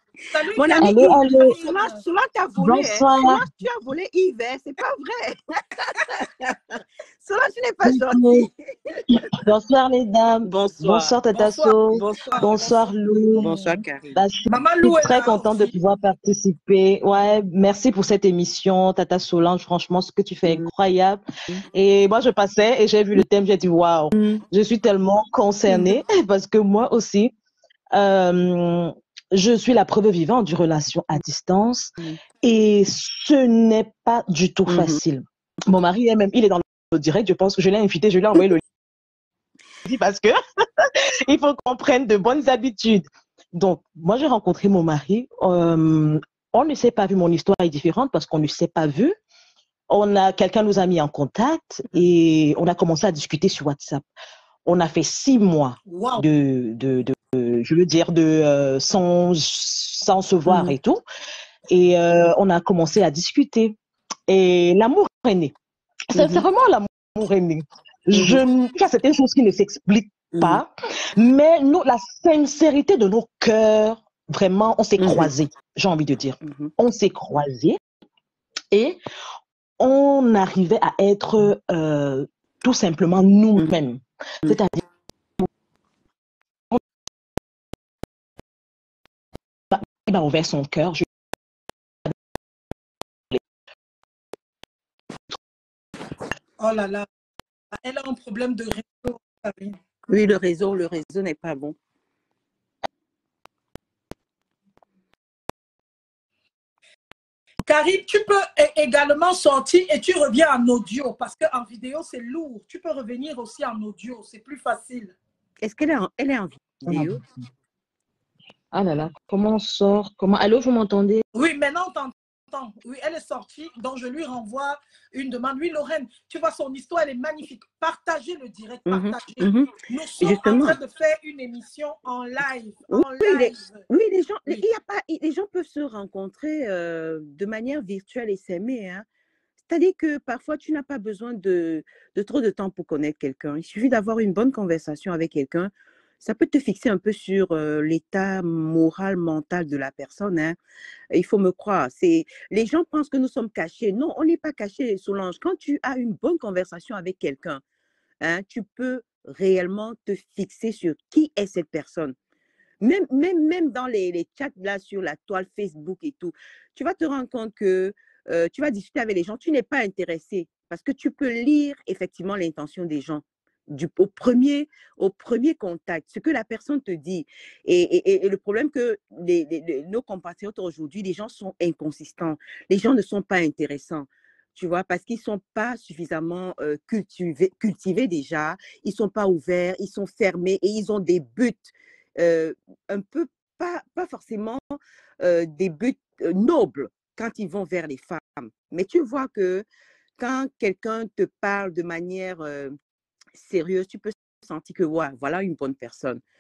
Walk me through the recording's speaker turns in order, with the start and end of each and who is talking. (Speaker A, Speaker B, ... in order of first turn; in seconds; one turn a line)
Speaker A: 0.3-2.0
Speaker B: 0.5-9.0
Speaker C: 0.8-1.6
Speaker C: 2.6-3.4
Speaker C: 7.8-8.5
Speaker C: 9.1-13.5
Speaker B: 10.4-11.2
Speaker A: 11.3-13.8
Speaker B: 11.9-12.8
Speaker B: 13.4-14.2
Speaker C: 14.2-21.2
Speaker A: 14.5-15.7
Speaker C: 21.7-27.3
Speaker B: 24.1-24.4
Speaker C: 27.9-38.6
Speaker B: 34.7-35.0
Speaker C: 39.9-49.1
Speaker C: 49.9-54.0
Speaker C: 54.7-61.0
Speaker A: 55.9-56.2
Speaker B: 60.5-60.8
Speaker C: 61.7-63.8
Speaker C: 64.3-65.5
Speaker C: 66.1-77.8
Speaker B: 66.1-66.5
Speaker B: 68.1-68.4
Speaker B: 70.3-70.6
Speaker B: 75.0-75.3
Speaker C: 78.7-79.0
Speaker C: 79.8-84.8
Speaker C: 89.7-91.1
Speaker A: 96.6-97.1
Speaker A: 97.7-99.8
Speaker B: 100.1-101.8
Speaker A: 107.7-115.2
Speaker B: 115.6-117.2
Speaker C: 116.9-117.2
Speaker C: 118.7-121.2
Speaker A: 121.3-133.8
Speaker B: 128.9-130.8
Speaker B: 132.9-139.1
Speaker B: 139.7-145.7
Speaker B: 146.2-150.6
Speaker B: 151.1-157.6
Speaker B: 158.2-162.2
Speaker B: 162.8-199.7
Speaker B: 200.2-202.7
Speaker B: 203.3-206.2